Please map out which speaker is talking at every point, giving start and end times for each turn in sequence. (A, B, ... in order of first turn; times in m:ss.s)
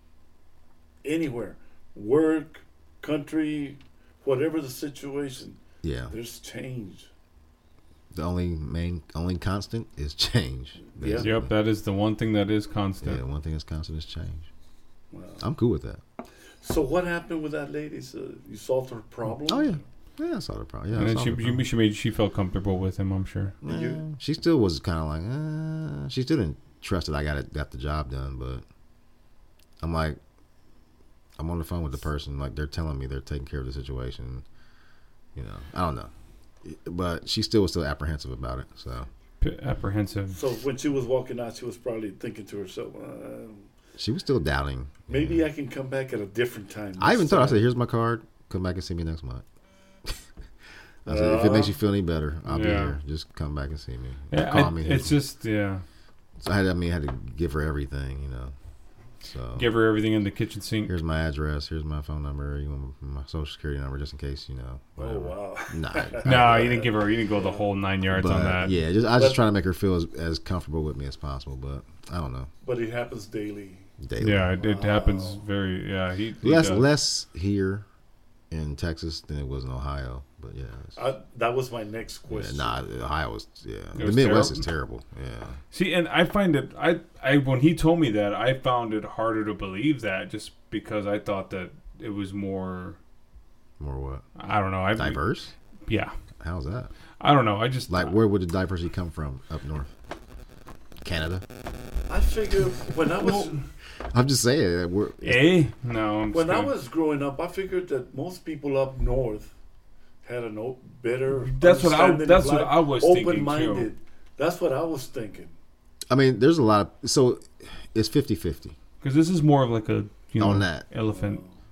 0:01.0-0:07.1 A
0:05.8-0:06.1 B
0:08.1-0:11.5 B
0:10.9-0:11.3 A
0:11.2-0:13.2 C
0:13.0-0:14.5 B
0:15.1-0:15.4 A
0:15.4-0:16.0 B
0:16.6-0:19.8 A
0:19.3-0:21.6 B
0:20.9-0:23.6 C
0:23.6-0:28.6 B
0:23.6-0:24.0 A
0:29.8-0:30.2 B
0:31.4-0:34.4 B
0:35.4-0:36.1 B
0:36.6-0:39.1 B
0:39.4-0:40.4 C
0:40.3-0:43.7 A
0:44.0-0:45.4 B
0:45.1-0:47.6 A
0:47.0-0:49.4 B
0:51.0-0:55.2 B
0:51.1-0:51.8 A
0:52.5-0:53.0 C
0:54.3-0:55.8 C
0:56.4-0:58.5 B
0:59.2-0:59.7 B
0:59.6-1:00.9 C
1:00.9-1:06.8 B
1:05.0-1:07.7 A
1:06.2-1:08.8 C
1:08.1-1:12.5 B
1:09.1-1:09.4 A
1:12.6-1:13.9 A
1:14.0-1:14.6 B
1:14.2-1:16.9 C
1:14.6-1:15.4 A
1:16.4-1:17.8 B
1:18.5-1:21.0 B
1:21.0-1:22.8 A
1:22.3-1:25.6 B
1:24.0-1:24.7 C
1:25.7-1:33.0 C
1:33.8-1:34.3 B
1:34.4-1:35.2 C
1:35.0-1:35.5 B
1:35.9-1:36.2 C
1:36.4-1:36.9 B
1:37.2-1:38.2 C
1:37.9-1:39.9 B
1:41.0-1:41.4 B
1:42.1-1:43.6 A
1:43.2-1:43.6 C
1:44.1-1:45.6 B
1:45.2-1:46.7 C
1:46.3-1:49.5 A
1:50.2-1:55.6 A
1:51.4-1:53.9 C
1:56.1-1:58.8 B
1:59.0-2:01.4 C
2:00.4-2:00.9 B
2:01.1-2:01.6 A